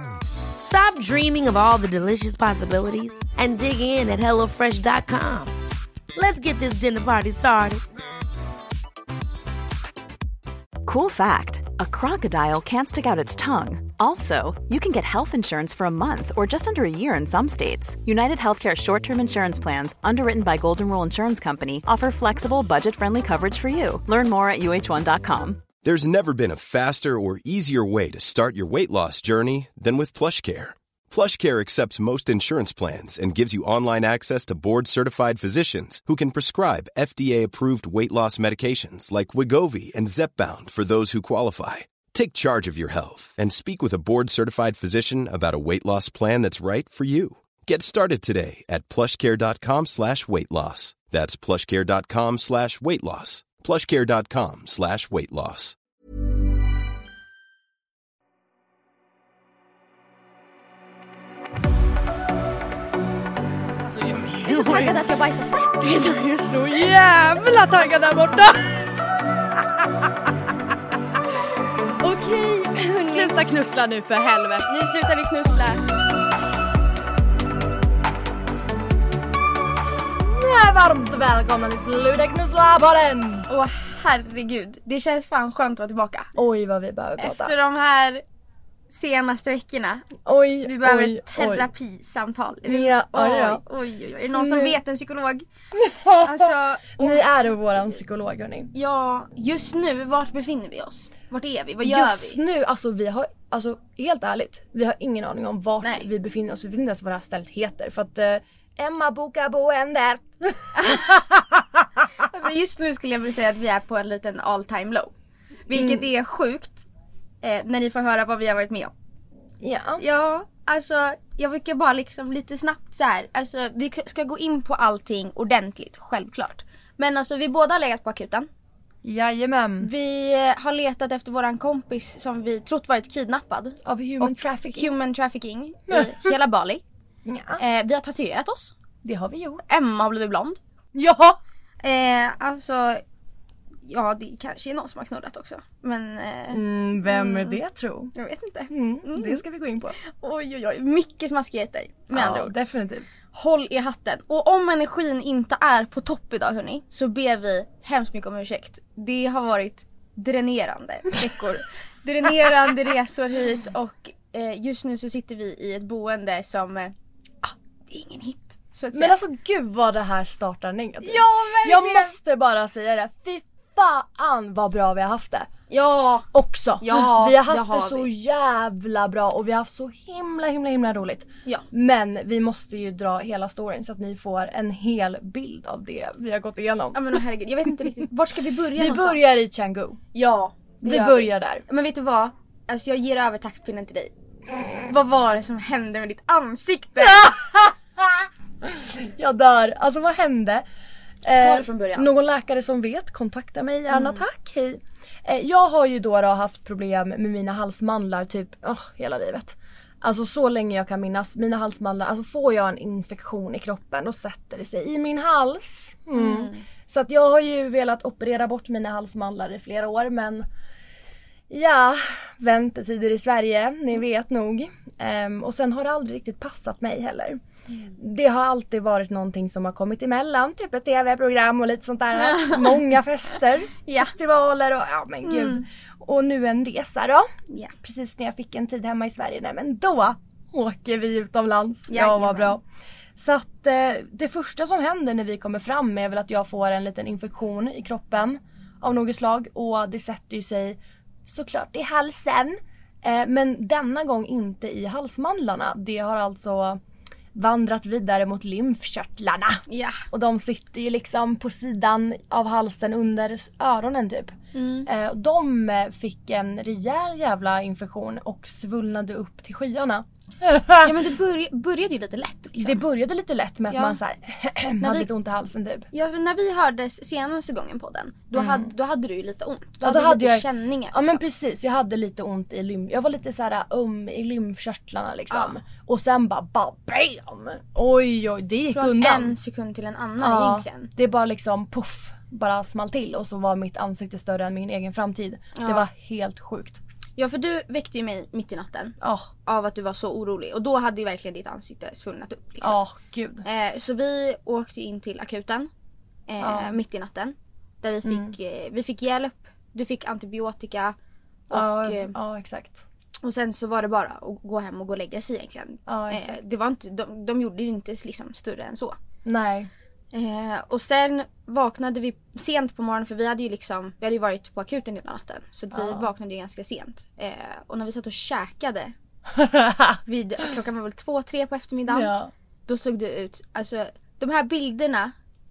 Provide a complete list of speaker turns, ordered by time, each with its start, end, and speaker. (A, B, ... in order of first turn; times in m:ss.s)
0:00.6-0:05.5 A
0:06.1-0:07.8 A
0:10.8-0:25.6 B
0:25.8-0:55.8 C
1:03.8-1:05.0 D
1:04.5-1:06.0 E
1:05.8-1:08.8 D
1:12.0-1:14.7 D
1:12.8-1:13.4 E
1:14.7-1:15.8 E
1:20.2-1:23.5 D
1:23.5-1:26.3 E
1:26.4-1:27.5 D
1:27.2-1:28.2 E
1:28.9-1:30.1 E
1:30.2-1:31.7 D
1:30.6-1:35.5 E
1:32.7-1:33.6 D
1:34.3-1:34.8 D
1:35.8-1:36.5 D
1:36.2-1:37.3 E
1:37.0-1:38.7 D
1:38.7-1:42.4 E
1:41.8-1:51.4 D
1:45.8-1:46.1 E
1:52.3-1:55.1 E
1:55.7-1:56.9 E
1:55.7-1:56.1 D
1:57.4-1:58.9 E
1:59.6-2:00.0 D
2:00.0-2:08.5 E
2:09.0-2:09.9 D
2:09.8-2:16.8 E
2:13.8-2:14.9 D
2:15.9-2:16.2 D
2:17.3-2:17.6 D
2:17.6-2:18.7 E
2:19.0-2:19.6 D
2:19.7-2:20.6 E
2:21.0-2:21.4 D
2:21.8-2:23.0 E
2:23.8-2:27.6 E
2:26.5-2:28.1 D
2:28.1-2:29.4 E
2:28.7-2:30.0 D
2:30.0-2:32.5 E
2:32.1-2:33.1 D
2:33.3-2:49.2 E
2:48.9-2:55.5 D
2:51.0-2:52.2 E
2:55.7-2:58.1 E
2:56.3-3:07.0 D
3:06.9-3:09.2 E
3:08.8-3:10.0 D
3:10.1-3:14.1 E
3:10.8-3:11.6 D
3:14.8-3:17.3 E
3:17.0-3:20.6 D
3:21.2-3:40.5 D
3:21.4-3:22.1 E
3:23.9-3:24.2 E
3:36.1-3:36.6 E
3:41.5-3:47.4 D
3:48.0-3:57.3 D
3:52.2-3:52.8 E
3:53.9-3:54.1 E
3:55.2-3:55.6 E
3:57.8-4:02.6 D
4:01.9-4:02.6 E
4:03.2-4:16.8 D
4:17.4-4:30.9 D
4:19.7-4:20.0 E
4:24.5-4:24.9 E
4:30.8-4:32.8 E
4:32.6-4:35.9 D
4:33.7-4:34.0 E
4:34.8-4:35.1 E
4:35.9-4:41.2 E
4:38.4-4:38.7 D
4:39.8-4:49.4 D
4:45.3-4:45.6 E
4:48.7-4:50.9 E
4:50.2-4:56.8 D
4:55.6-4:55.8 E
4:57.2-5:02.8 E
4:59.0-4:59.3 D
5:02.6-5:03.4 D
5:03.4-5:05.7 E
5:06.3-5:11.0 E
5:06.4-5:06.8 D
5:08.0-5:08.3 D
5:11.5-5:12.2 E
5:11.5-5:12.8 D
5:13.2-5:19.0 E
5:15.9-5:16.4 D
5:19.2-5:19.7 D
5:20.1-5:28.9 E
5:25.7-5:26.1 D
5:29.4-5:30.0 D
5:30.1-5:32.1 E
5:31.9-5:32.3 D
5:32.7-5:35.1 E